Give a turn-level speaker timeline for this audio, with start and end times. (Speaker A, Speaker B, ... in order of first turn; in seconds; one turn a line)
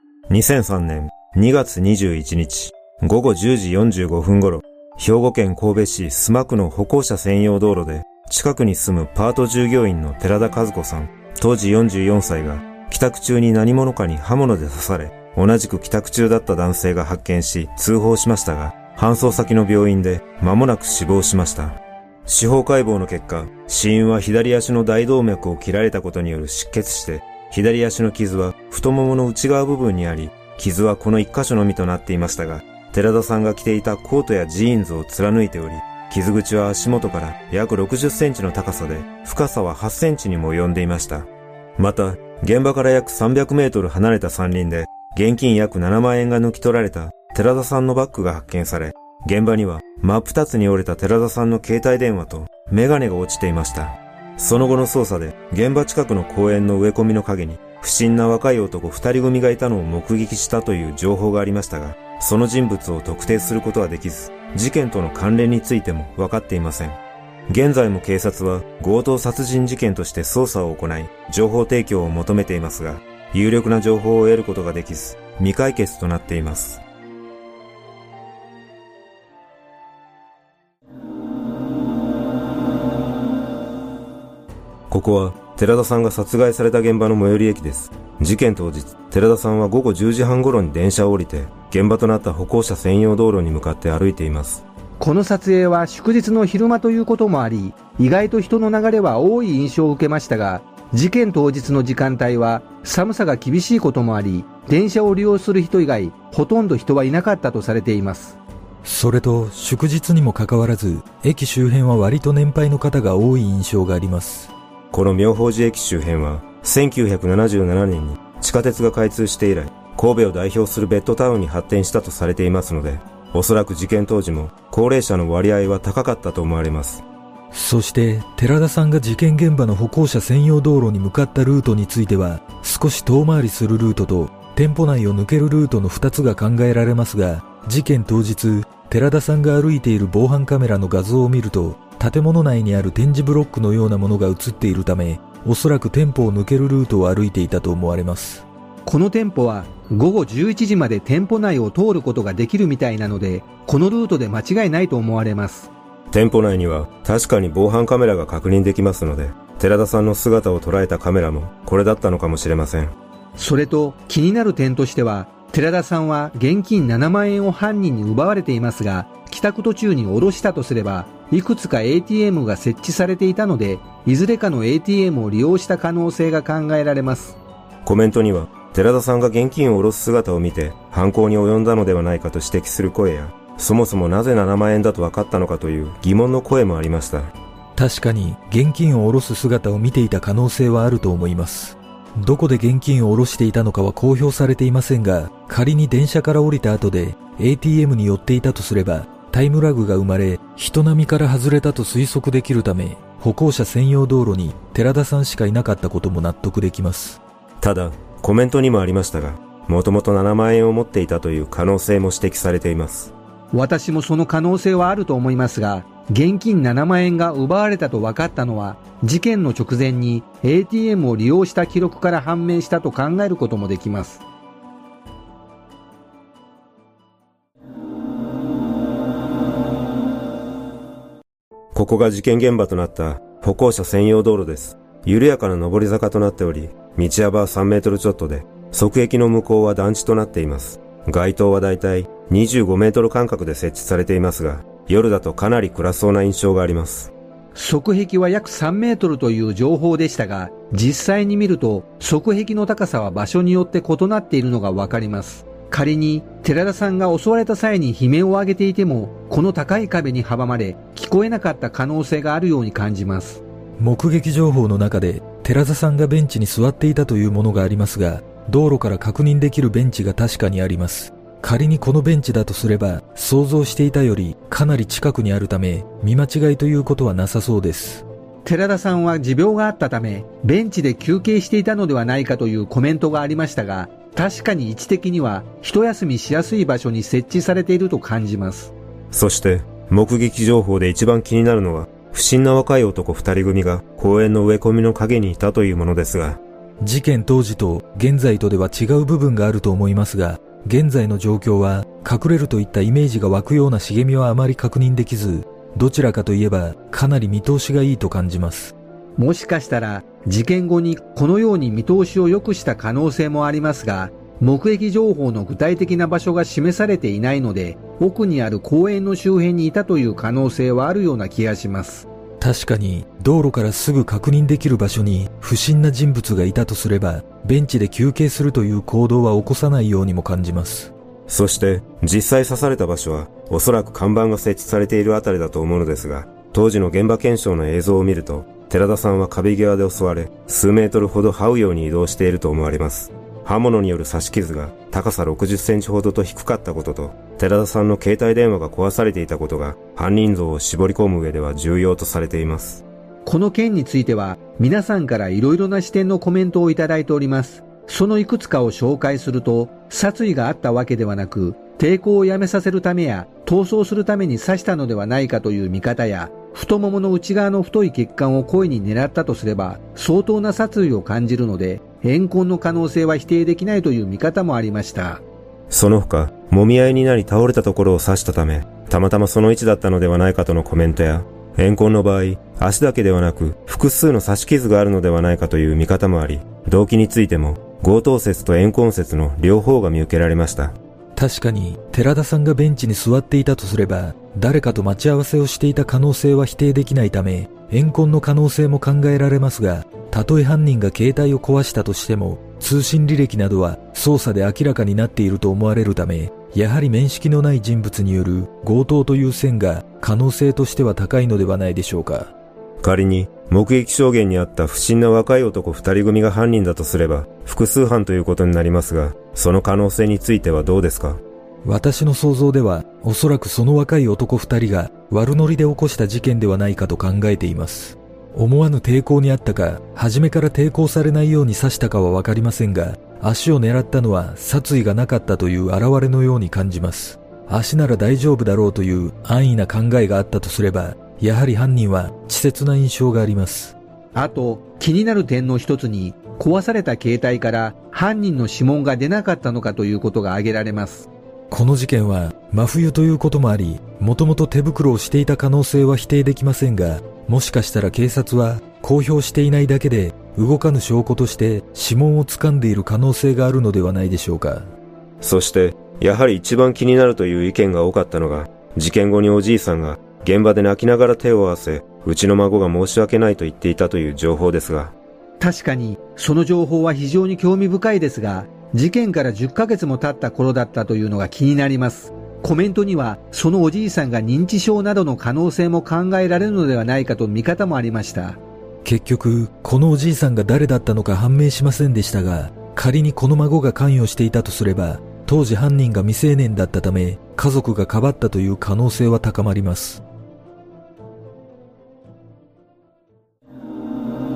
Speaker A: 0.3-67.0
Speaker A: 67.5-76.8
Speaker A: 84.9-94.6
Speaker B: 95.0-108.4
Speaker C: 108.8-114.5
Speaker A: 114.9-127.0
Speaker C: 127.5-148.4
Speaker B: 148.8-155.7
Speaker A: 156.1-162.9
Speaker B: 163.4-177.4
Speaker A: 177.8-187.3
Speaker C: 187.8-207.2
Speaker A: 207.6-213.1
Speaker B: 213.5-224.2
Speaker A: 231.7-247.1
Speaker B: 247.5-263.4
Speaker C: 263.8-278.0
Speaker B: 278.4-288.7
Speaker A: 289.1-296.4
Speaker C: 296.8-308.7
Speaker B: 309.1-322.1
Speaker C: 322.4-330.9
Speaker A: 331.3-352.8
Speaker B: 353.2-375.2
Speaker A: 375.7-390.7
Speaker C: 391.1-412.3
Speaker A: 412.8-421.2
Speaker C: 421.6-443.8
Speaker B: 444.1-451.1
Speaker C: 451.5-464.7
Speaker A: 465.2-474.9
Speaker B: 475.4-488.4
Speaker C: 488.8-500.0